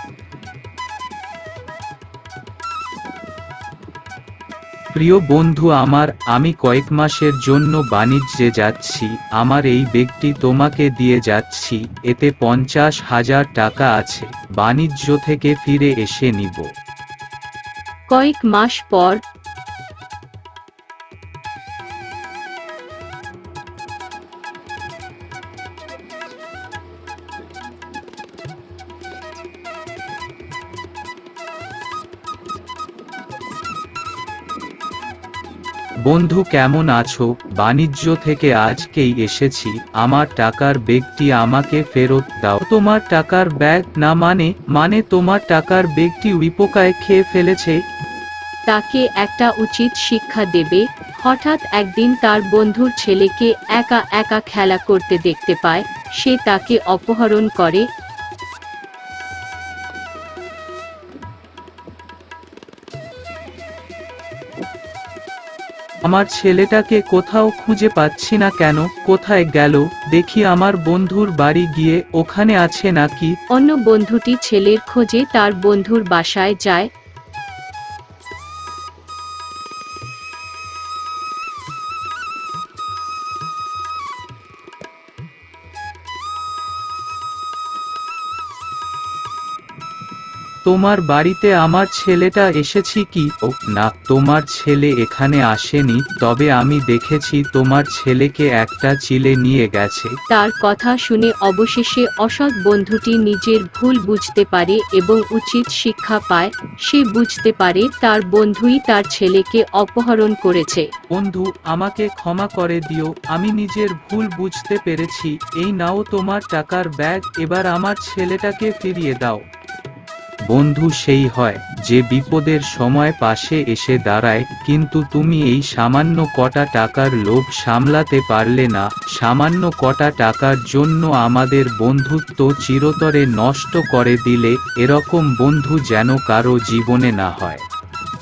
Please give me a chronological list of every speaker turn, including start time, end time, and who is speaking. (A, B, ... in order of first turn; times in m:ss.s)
0:05.0-0:16.7 A
0:18.1-0:19.2 B
0:36.1-0:47.8 A
0:48.7-0:57.8 B
1:06.1-1:13.3 A
1:13.6-1:16.9 B
1:30.7-1:40.1 A
1:40.3-1:50.9 B
1:51.1-1:59.4 A
2:00.5-2:17.6 A